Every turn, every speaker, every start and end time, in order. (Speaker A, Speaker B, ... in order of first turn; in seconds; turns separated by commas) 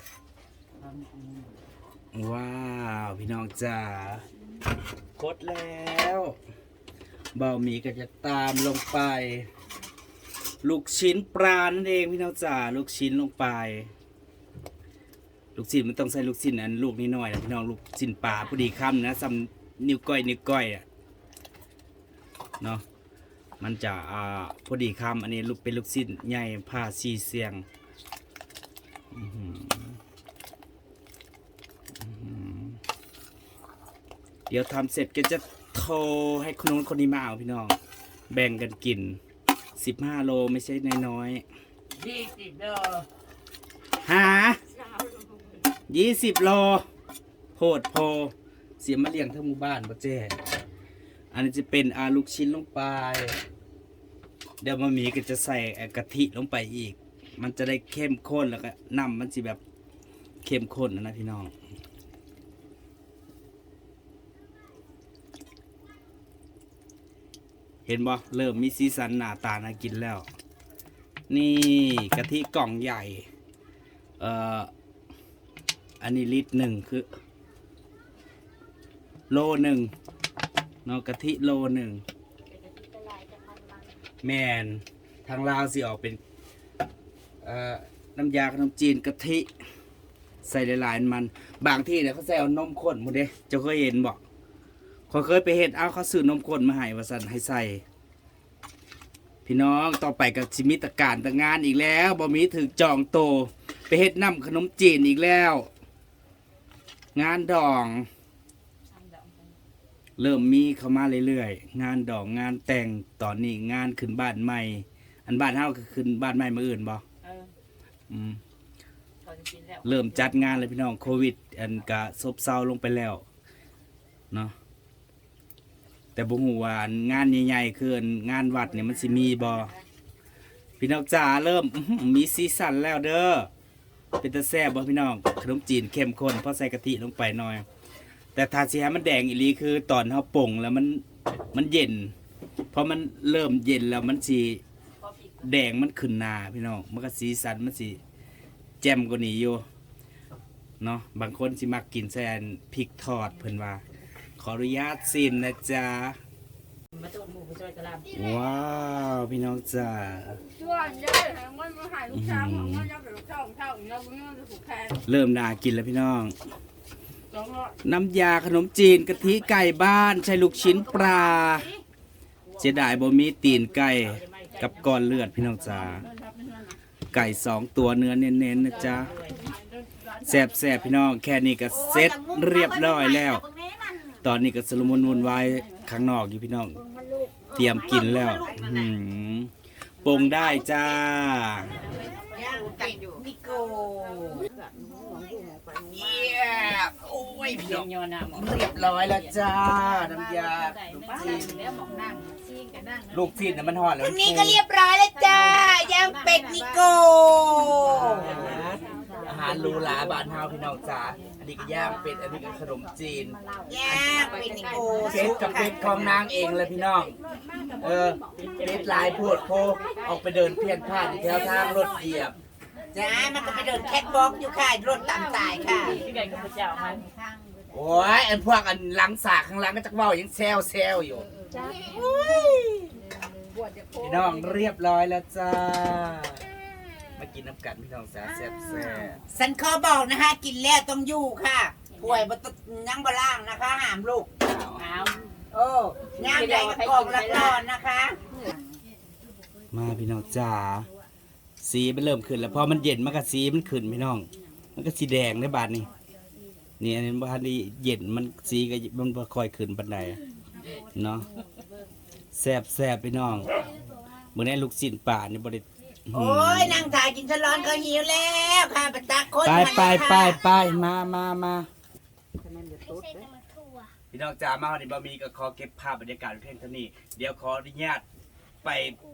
Speaker A: 2.1-4.2, Speaker A: 5.2-6.3, Speaker A: 7.3-9.5, Speaker A: 10.6-13.9, Speaker A: 15.6-20.9, Speaker A: 23.6-27.6, Speaker A: 29.1-30.0, Speaker A: 32.0-32.8, Speaker A: 34.5-37.8, Speaker A: 38.3-39.2, Speaker A: 39.8-41.4, Speaker B: 42.0-43.0, Speaker A: 44.0-44.6, Speaker B: 44.8-45.3, Speaker A: 45.9-46.9, Speaker A: 47.5-50.4, Speaker A: 51.3-53.4, Speaker A: 54.6-59.6, Speaker A: 60.4-61.5, Speaker A: 67.9-70.3, Speaker A: 71.3-73.3, Speaker A: 74.2-74.7, Speaker A: 76.0-77.1, Speaker A: 79.3-79.9, Speaker A: 80.8-82.0, Speaker B: 82.5-84.0, Speaker A: 84.2-86.2, Speaker A: 87.4-89.5, Speaker A: 90.4-94.2, Speaker A: 95.1-97.8, Speaker A: 99.5-105.7, Speaker A: 107.2-108.1, Speaker B: 108.9-109.6, Speaker A: 110.2-117.0, Speaker B: 117.2-117.5, Speaker A: 118.1-118.4, Speaker B: 119.2-120.6, Speaker A: 119.8-123.2, Speaker A: 126.2-129.7, Speaker B: 128.6-129.8, Speaker A: 130.8-133.5, Speaker A: 134.2-137.7, Speaker A: 138.3-142.1, Speaker A: 142.7-144.6, Speaker B: 145.0-145.4, Speaker A: 145.4-148.0, Speaker A: 148.8-149.6, Speaker A: 150.8-153.8, Speaker A: 154.4-156.2, Speaker B: 156.9-158.1, Speaker A: 158.1-160.4, Speaker C: 160.6-165.0, Speaker A: 162.1-162.9, Speaker A: 165.0-166.3, Speaker C: 167.4-167.7, Speaker A: 167.8-171.7, Speaker B: 170.7-171.8, Speaker B: 172.5-176.0, Speaker A: 172.6-176.1, Speaker A: 177.1-179.1, Speaker B: 178.6-180.7, Speaker A: 180.2-183.4, Speaker D: 181.7-184.2, Speaker A: 184.2-186.8, Speaker D: 187.1-188.9, Speaker A: 187.5-189.5, Speaker A: 190.0-191.8, Speaker B: 191.9-192.4, Speaker D: 192.3-196.5, Speaker C: 192.5-193.2, Speaker A: 195.9-201.7, Speaker B: 197.6-203.2, Speaker A: 203.1-204.6, Speaker D: 204.0-208.8, Speaker B: 205.2-206.9, Speaker A: 207.8-213.4, Speaker B: 208.1-210.1, Speaker B: 213.4-216.0, Speaker D: 213.7-216.0, Speaker C: 214.1-215.3, Speaker A: 215.0-217.1, Speaker C: 217.0-218.4, Speaker A: 217.8-222.4, Speaker B: 218.4-220.2, Speaker C: 219.6-219.9, Speaker B: 220.9-221.9, Speaker C: 221.2-221.9, Speaker D: 222.9-226.0, Speaker B: 223.3-227.1, Speaker A: 227.7-231.3, Speaker C: 231.5-231.8, Speaker D: 231.7-232.7, Speaker A: 232.0-232.8, Speaker C: 233.5-234.4, Speaker A: 234.0-236.4, Speaker A: 237.2-239.2, Speaker D: 239.3-244.3, Speaker B: 241.9-242.2, Speaker A: 244.4-244.8, Speaker B: 244.8-245.2, Speaker D: 245.5-248.2, Speaker B: 246.2-247.6, Speaker A: 249.7-250.9, Speaker A: 251.6-255.9, Speaker A: 256.8-260.2, Speaker A: 260.9-261.3, Speaker A: 262.3-263.7, Speaker A: 264.3-266.9, Speaker D: 266.1-270.4, Speaker A: 269.4-271.7, Speaker D: 272.4-273.3, Speaker A: 274.1-278.0, Speaker A: 278.6-279.0